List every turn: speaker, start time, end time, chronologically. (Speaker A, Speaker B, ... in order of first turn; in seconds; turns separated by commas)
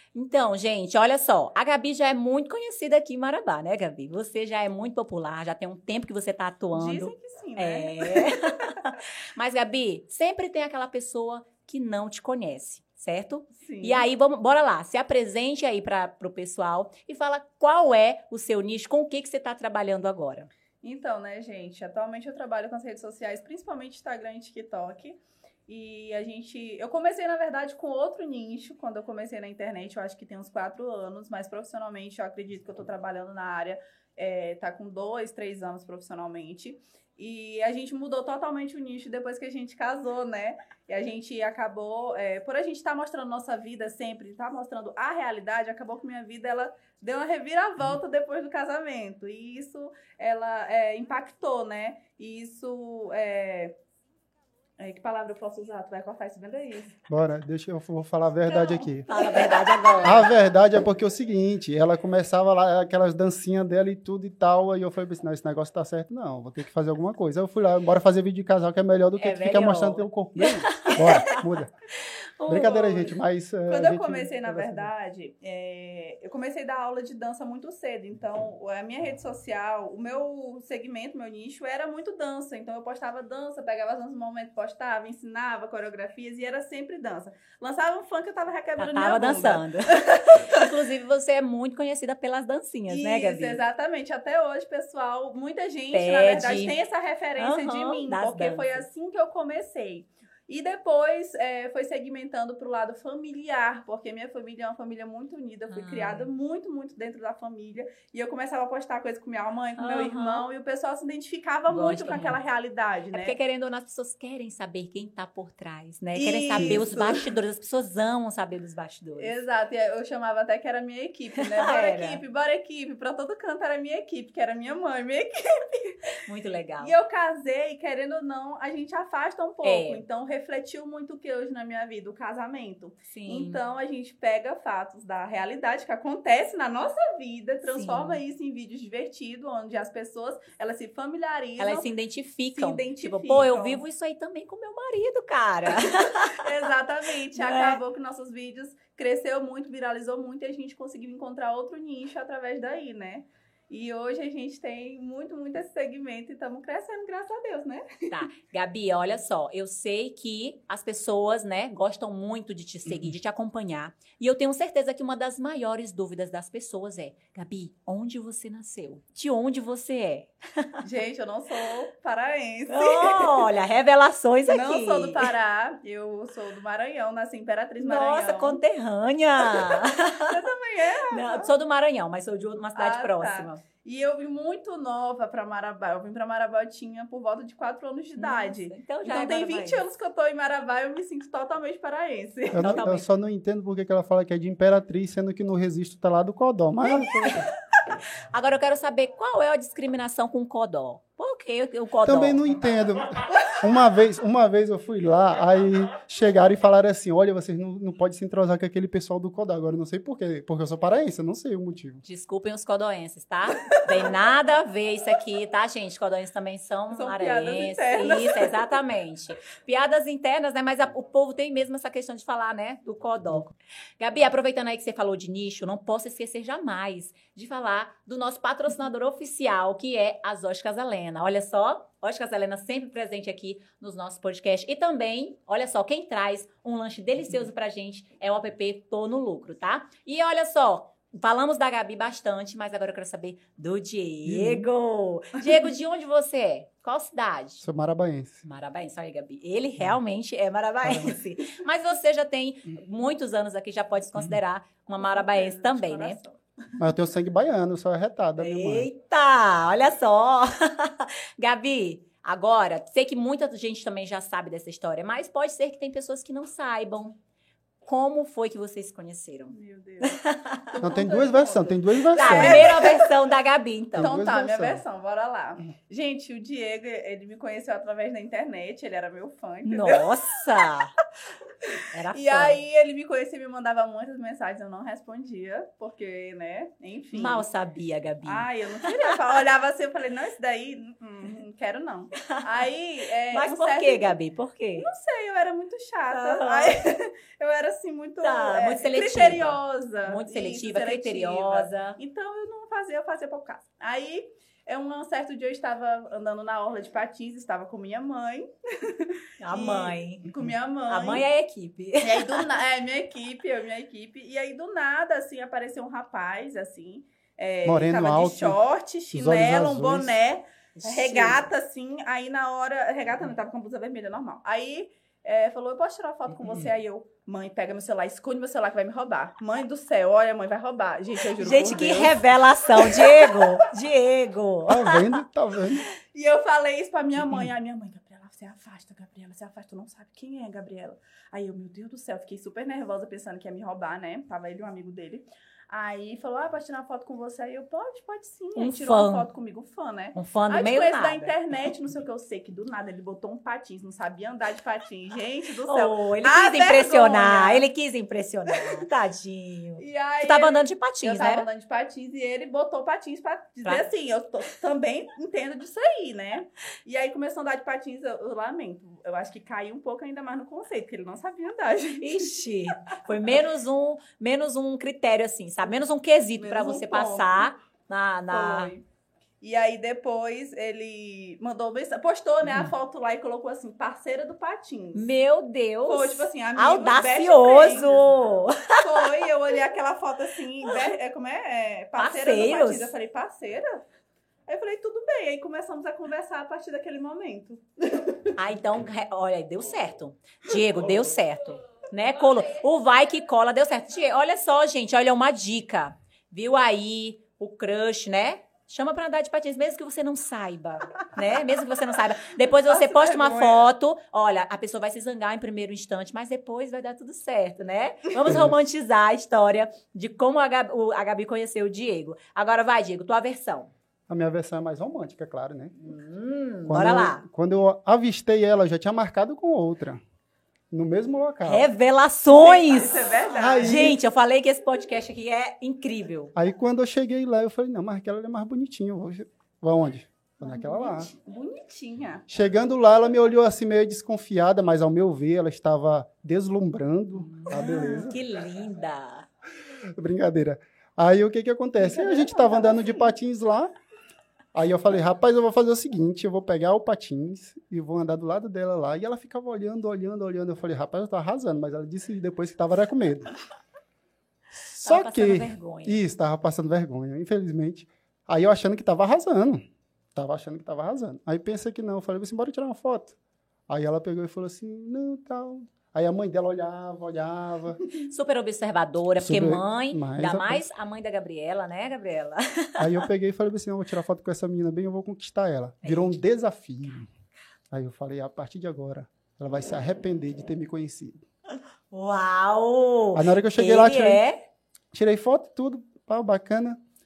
Speaker A: 0.1-20.5, Speaker B: 6.7-8.3, Speaker B: 13.6-14.1, Speaker B: 20.8-53.8, Speaker B: 54.8-57.0, Speaker C: 57.1-59.1, Speaker B: 58.5-60.0, Speaker A: 59.1-60.3, Speaker C: 60.0-71.7, Speaker A: 69.2-71.4, Speaker A: 72.0-73.1, Speaker C: 72.5-74.9, Speaker B: 73.7-90.7, Speaker A: 88.8-93.6, Speaker B: 92.9-113.3, Speaker A: 95.9-96.8, Speaker A: 97.4-98.8, Speaker A: 105.7-106.3, Speaker A: 109.8-110.5, Speaker A: 111.7-112.4, Speaker A: 113.1-119.4, Speaker B: 116.2-117.3, Speaker B: 119.2-126.2, Speaker A: 121.4-122.2, Speaker A: 126.2-126.9, Speaker B: 126.8-141.9, Speaker A: 129.6-130.0, Speaker A: 133.1-133.6, Speaker A: 137.7-138.2, Speaker A: 141.6-146.5, Speaker B: 142.5-143.8, Speaker B: 145.7-158.2, Speaker A: 147.3-147.8, Speaker A: 158.1-170.8, Speaker B: 170.8-173.5, Speaker A: 172.7-175.3, Speaker B: 174.5-178.6, Speaker A: 177.8-180.5, Speaker B: 179.4-181.5, Speaker A: 181.1-183.6, Speaker B: 182.8-192.8, Speaker A: 188.2-189.8, Speaker C: 192.5-197.5, Speaker A: 192.5-193.0, Speaker A: 198.3-202.4, Speaker C: 202.0-212.0, Speaker A: 212.0-247.6, Speaker B: 213.8-214.1, Speaker B: 216.9-218.8, Speaker C: 244.2-244.7, Speaker C: 247.6-248.4, Speaker A: 248.4-256.2, Speaker C: 250.8-251.2, Speaker B: 255.0-256.4, Speaker C: 256.8-258.9, Speaker A: 258.4-267.2, Speaker A: 267.8-270.7, Speaker B: 269.5-273.1, Speaker C: 270.8-272.8, Speaker A: 272.1-274.1, Speaker C: 273.9-274.8, Speaker B: 274.0-280.7, Speaker A: 279.6-280.9, Speaker B: 281.8-287.4, Speaker A: 281.9-282.6, Speaker A: 287.1-289.2, Speaker B: 288.2-294.2, Speaker A: 292.2-292.7, Speaker A: 293.3-294.9, Speaker B: 294.8-311.2, Speaker A: 296.1-296.7, Speaker A: 298.2-302.0, Speaker A: 309.4-310.3, Speaker A: 310.9-312.5, Speaker B: 312.0-333.6, Speaker C: 317.6-318.6, Speaker C: 319.1-320.1, Speaker A: 320.8-321.4, Speaker A: 331.4-335.0, Speaker C: 334.7-335.8, Speaker B: 336.0-357.6, Speaker A: 348.6-349.3, Speaker A: 350.1-351.3, Speaker A: 355.7-361.5, Speaker B: 358.5-358.8, Speaker B: 359.8-372.3, Speaker A: 372.0-378.7, Speaker B: 376.4-377.5, Speaker B: 378.3-378.8, Speaker B: 379.4-385.1, Speaker A: 384.9-389.1, Speaker B: 385.9-388.1, Speaker B: 388.8-393.8, Speaker A: 391.9-392.9, Speaker B: 394.5-398.3, Speaker A: 398.4-423.7, Speaker B: 412.3-413.6, Speaker C: 418.2-418.6, Speaker C: 424.1-425.8, Speaker A: 425.9-427.2, Speaker C: 426.6-430.0, Speaker C: 430.7-431.7, Speaker A: 431.4-436.3, Speaker B: 432.3-433.9, Speaker C: 433.4-434.0, Speaker C: 436.4-441.1, Speaker B: 440.4-442.3, Speaker C: 442.3-448.2, Speaker A: 447.1-449.3, Speaker C: 449.8-453.7, Speaker B: 451.8-453.1, Speaker C: 454.5-463.3, Speaker C: 464.7-469.6, Speaker A: 464.8-466.0, Speaker C: 470.1-473.1, Speaker C: 473.7-477.8, Speaker A: 478.0-483.0, Speaker C: 479.2-480.6, Speaker C: 482.8-487.1, Speaker A: 485.8-486.1, Speaker C: 487.7-491.2, Speaker A: 491.9-494.4, Speaker C: 493.1-494.2, Speaker C: 494.9-496.8